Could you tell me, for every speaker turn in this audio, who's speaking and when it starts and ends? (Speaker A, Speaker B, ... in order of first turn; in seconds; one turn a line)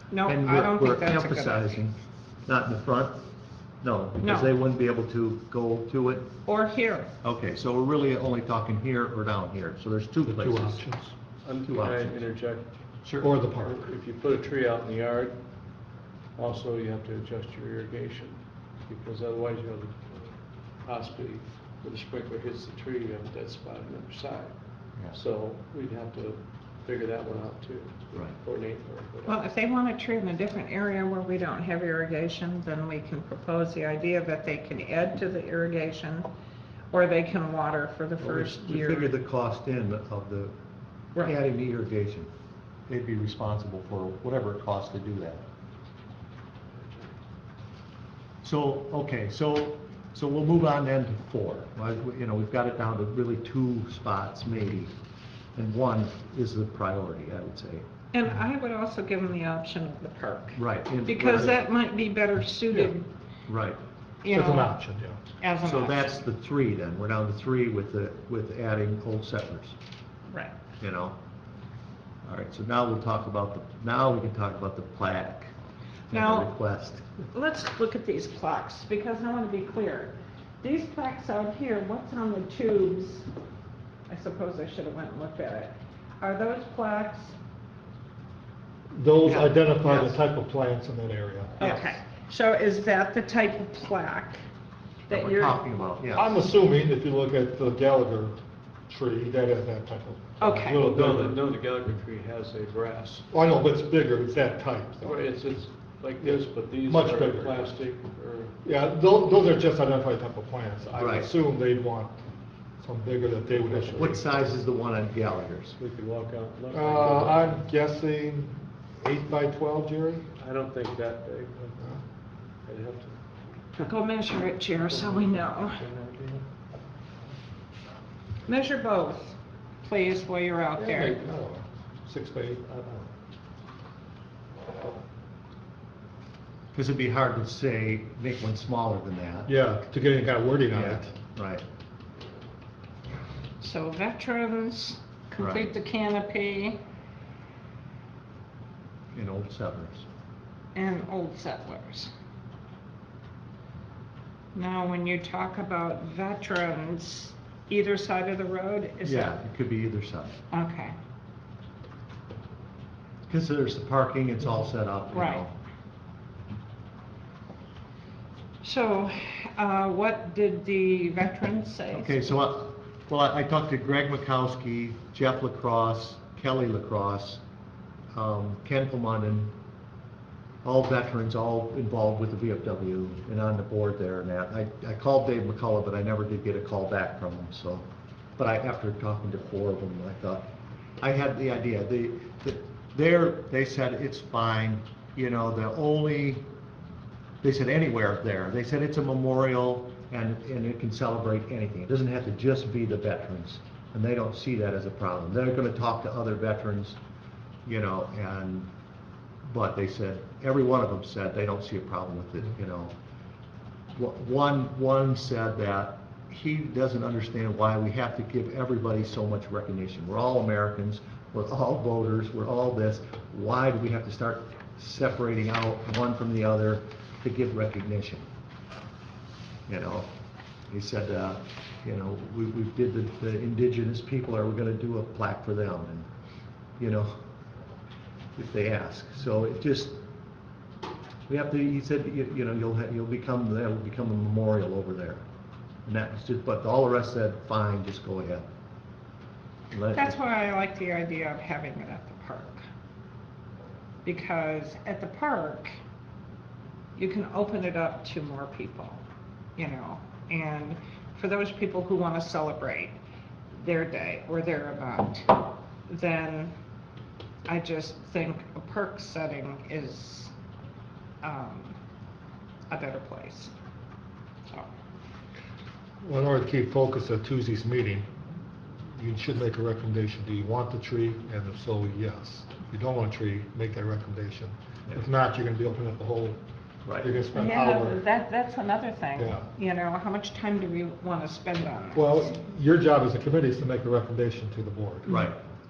Speaker A: 0.1-1.7
Speaker B: 0.2-3.2
Speaker B: 3.8-6.3
Speaker A: 4.2-4.5
Speaker A: 6.5-7.1
Speaker B: 7.2-10.8
Speaker C: 10.3-11.1
Speaker D: 11.4-12.7
Speaker B: 11.7-12.1
Speaker B: 13.0-13.3
Speaker C: 13.2-13.8
Speaker D: 13.6-15.4
Speaker D: 16.4-24.5
Speaker D: 25.1-29.4
Speaker A: 29.3-36.3
Speaker A: 36.9-39.1
Speaker B: 38.2-40.6
Speaker B: 41.2-42.3
Speaker B: 42.9-45.4
Speaker B: 48.4-54.9
Speaker B: 55.6-57.9
Speaker A: 58.1-63.1
Speaker B: 60.6-61.6
Speaker B: 63.5-63.8
Speaker A: 64.2-64.8
Speaker C: 64.3-65.2
Speaker A: 65.4-66.2
Speaker B: 65.6-69.8
Speaker A: 70.3-70.6
Speaker B: 70.8-71.2
Speaker B: 72.2-75.5
Speaker B: 76.1-77.2
Speaker A: 76.1-76.5
Speaker A: 77.3-83.3
Speaker A: 84.1-87.3
Speaker C: 88.9-91.6
Speaker B: 89.2-90.2
Speaker A: 91.6-94.4
Speaker B: 91.6-92.0
Speaker A: 95.1-95.6
Speaker B: 95.1-96.4
Speaker C: 96.2-101.4
Speaker A: 100.4-100.8
Speaker D: 100.7-103.3
Speaker C: 103.3-105.2
Speaker D: 105.0-108.6
Speaker C: 106.2-107.7
Speaker C: 108.6-112.2
Speaker B: 111.0-111.3
Speaker C: 112.8-114.4
Speaker B: 113.9-115.8
Speaker D: 115.8-117.6
Speaker C: 116.7-120.3
Speaker D: 120.4-121.9
Speaker D: 122.7-123.2
Speaker A: 123.8-125.8
Speaker D: 124.8-126.5
Speaker A: 128.5-131.2
Speaker D: 130.8-131.2
Speaker C: 131.1-133.1
Speaker B: 136.7-139.5
Speaker C: 139.5-141.1
Speaker B: 140.7-141.6
Speaker A: 143.6-146.8
Speaker B: 145.4-145.7
Speaker B: 149.1-150.1
Speaker A: 150.8-152.1
Speaker A: 154.6-159.3
Speaker B: 159.0-160.4
Speaker A: 160.5-161.0
Speaker B: 163.3-165.5
Speaker A: 165.1-165.4
Speaker A: 168.6-172.4
Speaker B: 171.9-177.4
Speaker B: 178.1-179.6
Speaker B: 180.6-187.8
Speaker B: 188.4-196.5
Speaker B: 197.4-207.0
Speaker B: 207.7-208.7
Speaker B: 209.4-212.9
Speaker B: 213.9-228.3
Speaker B: 229.7-230.1
Speaker B: 230.7-236.1
Speaker B: 236.8-237.2
Speaker B: 238.4-240.0
Speaker B: 241.3-245.2
Speaker B: 245.9-248.5
Speaker B: 249.7-250.2
Speaker A: 249.9-252.6
Speaker A: 254.1-255.8
Speaker A: 257.0-259.0
Speaker A: 259.6-263.0
Speaker A: 263.6-266.5
Speaker A: 267.5-270.3
Speaker A: 271.2-271.8
Speaker A: 272.7-273.5
Speaker C: 276.0-278.1
Speaker C: 278.9-286.4
Speaker B: 286.9-287.2
Speaker C: 287.0-288.0
Speaker A: 287.3-292.2
Speaker C: 289.2-289.5
Speaker C: 291.9-295.1
Speaker B: 295.1-295.4